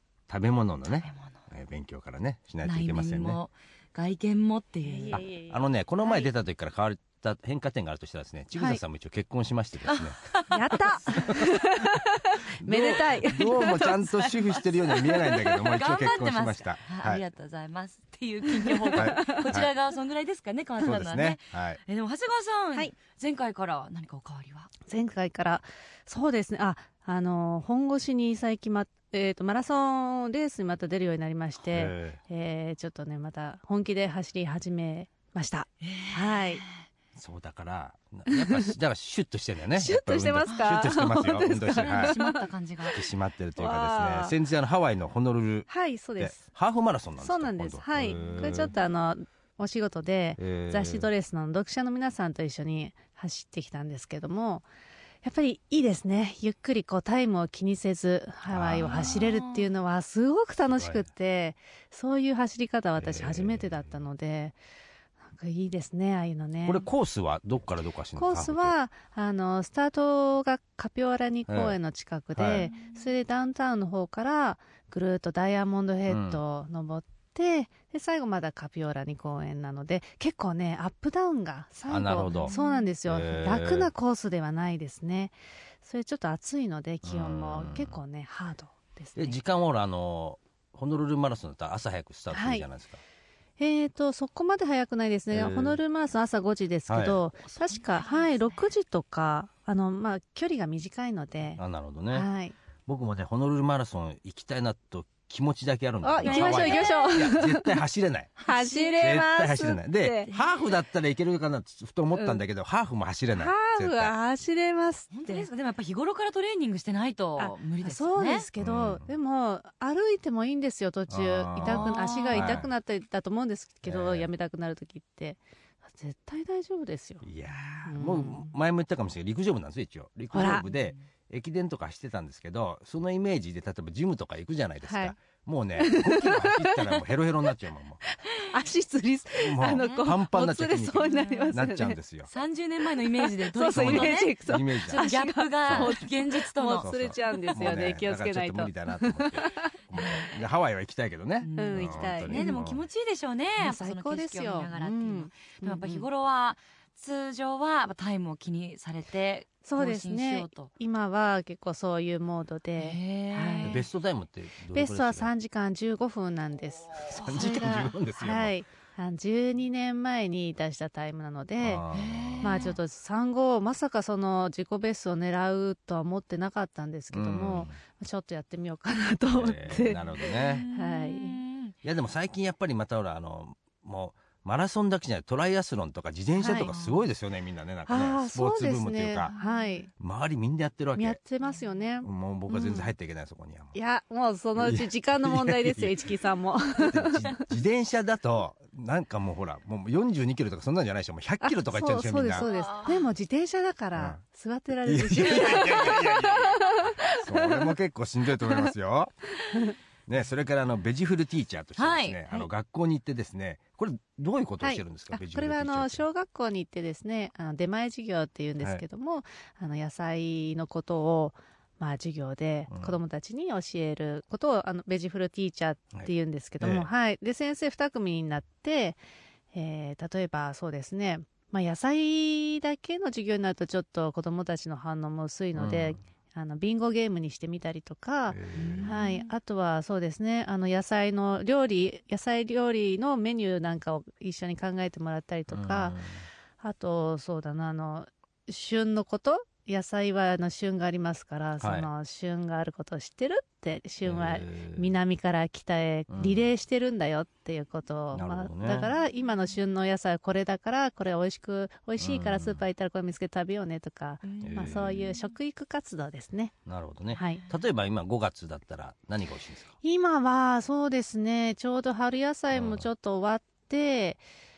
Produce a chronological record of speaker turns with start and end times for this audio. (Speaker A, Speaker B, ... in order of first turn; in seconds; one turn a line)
Speaker A: 0.3-3.4
Speaker B: 1.0-1.4
Speaker B: 2.6-5.2
Speaker C: 4.8-6.3
Speaker A: 5.1-10.3
Speaker C: 8.6-8.8
Speaker B: 9.8-10.5
Speaker C: 10.5-14.3
Speaker A: 11.1-11.4
Speaker A: 12.6-17.2
Speaker B: 14.2-24.7
Speaker C: 18.6-19.4
Speaker A: 18.9-19.7
Speaker A: 20.8-21.8
Speaker C: 24.9-36.6
Speaker A: 31.7-32.2
Speaker B: 35.8-36.7
Speaker A: 37.1-42.2
Speaker C: 38.3-38.7
Speaker C: 39.8-42.4
Speaker B: 40.5-40.9
Speaker B: 41.6-43.0
Speaker A: 42.9-48.7
Speaker C: 43.6-44.3
Speaker C: 45.7-46.5
Speaker C: 47.2-54.6
Speaker B: 48.1-48.7
Speaker A: 50.4-51.1
Speaker C: 55.2-64.5
Speaker A: 58.5-59.4
Speaker B: 58.9-59.6
Speaker A: 60.7-61.1
Speaker A: 63.0-63.9
Speaker C: 65.3-66.9
Speaker A: 66.6-68.7
Speaker C: 68.2-89.3
Speaker A: 71.5-71.8
Speaker A: 72.3-72.7
Speaker B: 72.6-73.1
Speaker A: 76.1-76.4
Speaker A: 81.9-82.5
Speaker B: 82.4-82.9
Speaker A: 83.1-83.9
Speaker A: 87.0-88.0
Speaker A: 89.2-93.0
Speaker C: 92.3-92.7
Speaker C: 93.6-101.6
Speaker A: 95.3-95.8
Speaker A: 96.9-97.2
Speaker B: 97.5-98.7
Speaker A: 101.6-102.3
Speaker C: 102.1-102.5
Speaker A: 102.8-108.4
Speaker C: 106.0-107.8
Speaker B: 106.2-107.2
Speaker B: 108.4-108.9
Speaker C: 108.4-110.3
Speaker A: 109.0-114.1
Speaker C: 113.3-115.5
Speaker B: 115.1-118.5
Speaker C: 117.4-127.2
Speaker A: 118.6-119.0
Speaker A: 121.1-122.7
Speaker B: 121.6-122.5
Speaker A: 123.8-124.3
Speaker A: 127.2-138.0
Speaker C: 127.8-128.5
Speaker C: 130.3-130.7
Speaker B: 130.4-131.0
Speaker C: 134.8-135.2
Speaker C: 135.8-136.8
Speaker C: 138.3-142.0
Speaker A: 139.4-142.3
Speaker B: 141.0-141.6
Speaker B: 142.3-147.7
Speaker C: 143.0-150.3
Speaker A: 143.7-145.1
Speaker A: 145.6-145.9
Speaker A: 146.8-152.8
Speaker B: 151.4-160.7
Speaker C: 151.5-152.6
Speaker C: 153.6-156.1
Speaker C: 159.6-163.8
Speaker B: 162.8-163.8
Speaker A: 163.6-165.3
Speaker C: 164.7-171.8
Speaker A: 167.1-168.5
Speaker A: 171.6-172.6
Speaker B: 171.9-172.8
Speaker C: 172.4-181.4
Speaker A: 177.1-177.8
Speaker A: 179.3-180.7
Speaker B: 180.3-181.7
Speaker A: 181.8-189.3
Speaker C: 186.4-186.7
Speaker B: 186.4-187.0
Speaker C: 187.9-189.9
Speaker B: 189.3-189.8
Speaker A: 190.0-191.2
Speaker C: 190.9-192.9
Speaker A: 192.0-193.7
Speaker C: 193.7-197.4
Speaker A: 194.6-196.1
Speaker A: 196.8-202.4
Speaker C: 201.4-207.7
Speaker B: 202.4-203.1
Speaker A: 204.8-209.1
Speaker C: 209.5-209.7
Speaker A: 210.1-216.0
Speaker B: 211.8-212.2
Speaker C: 214.6-229.0
Speaker A: 222.7-223.0
Speaker A: 225.9-226.9
Speaker C: 229.5-246.0
Speaker A: 235.6-236.0
Speaker A: 238.3-238.9
Speaker B: 238.5-239.3
Speaker A: 245.5-246.2
Speaker C: 246.6-266.5
Speaker A: 251.6-251.9
Speaker A: 254.0-254.9
Speaker A: 256.1-256.5
Speaker A: 258.1-258.9
Speaker A: 262.0-262.6
Speaker B: 264.2-265.2
Speaker A: 264.4-265.0
Speaker A: 266.6-269.7
Speaker C: 267.1-267.4
Speaker C: 269.8-274.2
Speaker A: 272.5-272.9